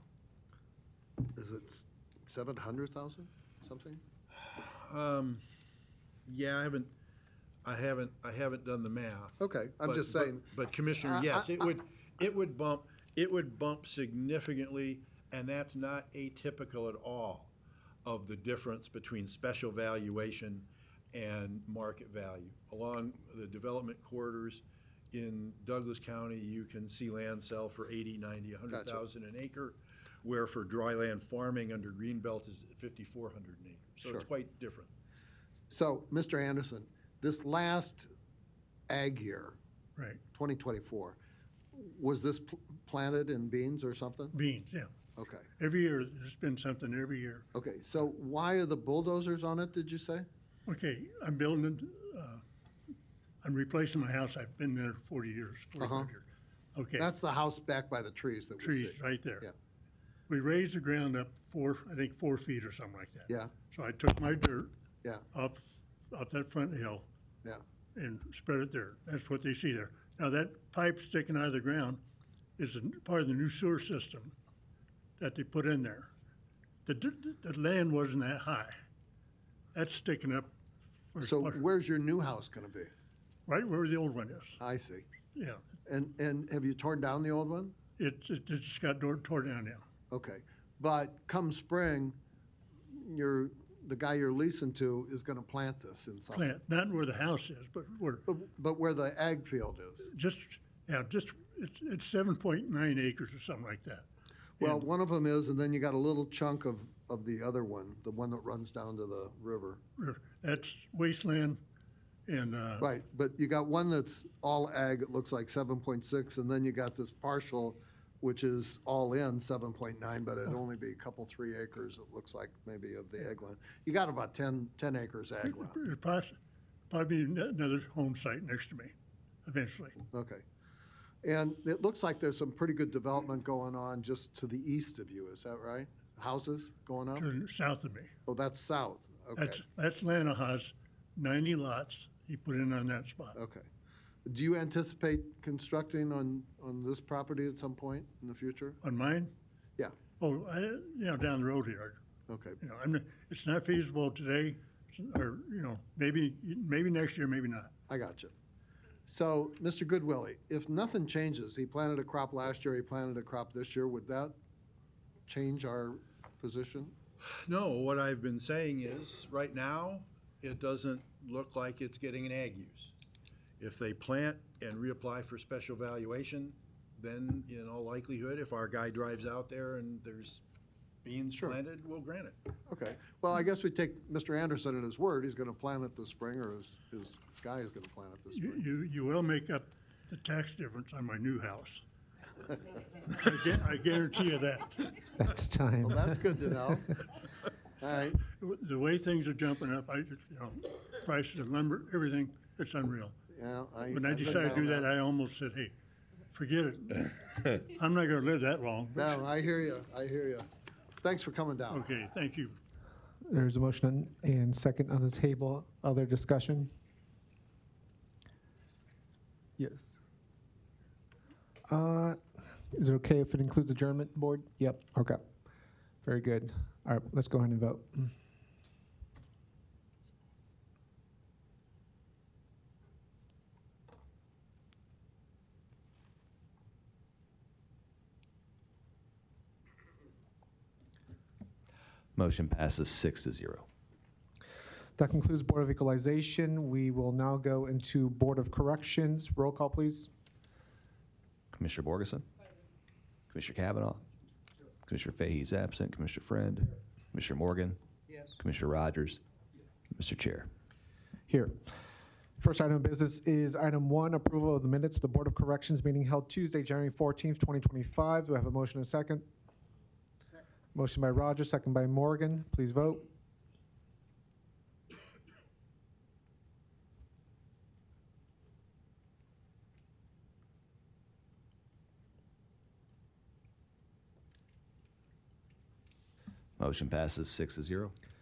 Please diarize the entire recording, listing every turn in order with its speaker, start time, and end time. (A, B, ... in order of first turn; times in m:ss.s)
0:01.3-0:04.0 A
0:04.4-0:05.4 B
0:06.2-0:06.9 B
0:07.6-0:17.5 B
0:09.4-0:11.7 A
0:18.0-0:34.9 B
0:28.7-0:29.0 A
0:34.0-0:34.3 A
0:35.7-0:38.1 A
0:38.9-0:39.6 A
0:40.3-0:41.2 A
0:41.7-0:44.3 A
0:44.3-0:44.9 C
0:45.2-0:45.5 A
0:45.6-0:47.4 C
0:47.5-0:50.3 A
0:50.7-0:52.4 C
0:53.4-0:57.1 C
0:55.8-0:56.1 A
0:57.0-0:59.5 A
0:58.6-0:59.4 C
1:00.3-1:04.7 C
1:03.3-1:03.5 A
1:05.3-1:07.0 C
1:07.9-1:12.0 C
1:12.6-1:14.3 C
1:15.2-1:16.1 C
1:16.8-1:18.7 C
1:19.7-1:20.5 C
1:21.1-1:21.6 C
1:21.2-1:22.9 A
1:23.5-1:24.6 C
1:24.6-1:25.0 A
1:25.4-1:25.6 C
1:25.8-1:27.7 A
1:28.0-1:29.8 C
1:30.1-1:32.2 A
1:32.9-1:36.6 A
1:36.3-1:38.2 C
1:38.3-1:40.1 A
1:40.1-1:44.0 C
1:44.6-1:49.8 A
1:50.0-1:51.6 C
1:52.3-1:52.9 C
1:52.8-2:05.8 A
2:05.5-2:06.4 C
2:06.9-2:08.9 C
2:09.4-2:10.0 C
2:10.1-2:10.4 A
2:11.2-2:17.3 A
2:17.2-2:18.1 C
2:18.2-2:19.6 A
2:19.4-2:23.4 C
2:23.3-2:23.7 A
2:24.2-2:28.8 A
2:28.8-2:29.3 C
2:30.2-2:32.0 C
2:32.3-2:32.6 A
2:32.6-2:37.7 C
2:37.9-2:38.3 A
2:39.1-2:44.3 A
2:45.3-2:46.9 A
2:47.4-2:52.9 B
2:53.6-3:00.4 B
3:01.0-3:02.4 B
3:02.7-3:08.6 A
3:08.3-3:11.8 C
3:13.1-3:15.0 C
3:15.2-3:16.0 D
3:15.8-3:17.0 A
3:17.8-3:18.2 A
3:18.4-3:23.1 C
3:23.3-3:24.9 A
3:23.9-3:25.7 C
3:26.3-3:29.1 C
3:29.0-3:30.5 A
3:31.0-3:31.9 A
3:31.7-3:32.6 C
3:33.3-3:36.7 D
3:39.6-3:40.0 D
3:41.7-3:42.2 D
3:42.7-3:45.2 D
3:46.0-3:48.1 D
4:02.2-4:03.6 E
4:05.0-4:10.1 D
4:11.6-4:12.2 E
4:13.3-4:14.0 E
4:14.9-4:16.6 E
4:17.1-4:17.7 E
4:18.4-4:19.2 E
4:20.0-4:20.4 E
4:21.3-4:21.5 D
4:22.4-4:29.2 D
4:30.7-4:33.0 D
4:46.6-4:47.9 E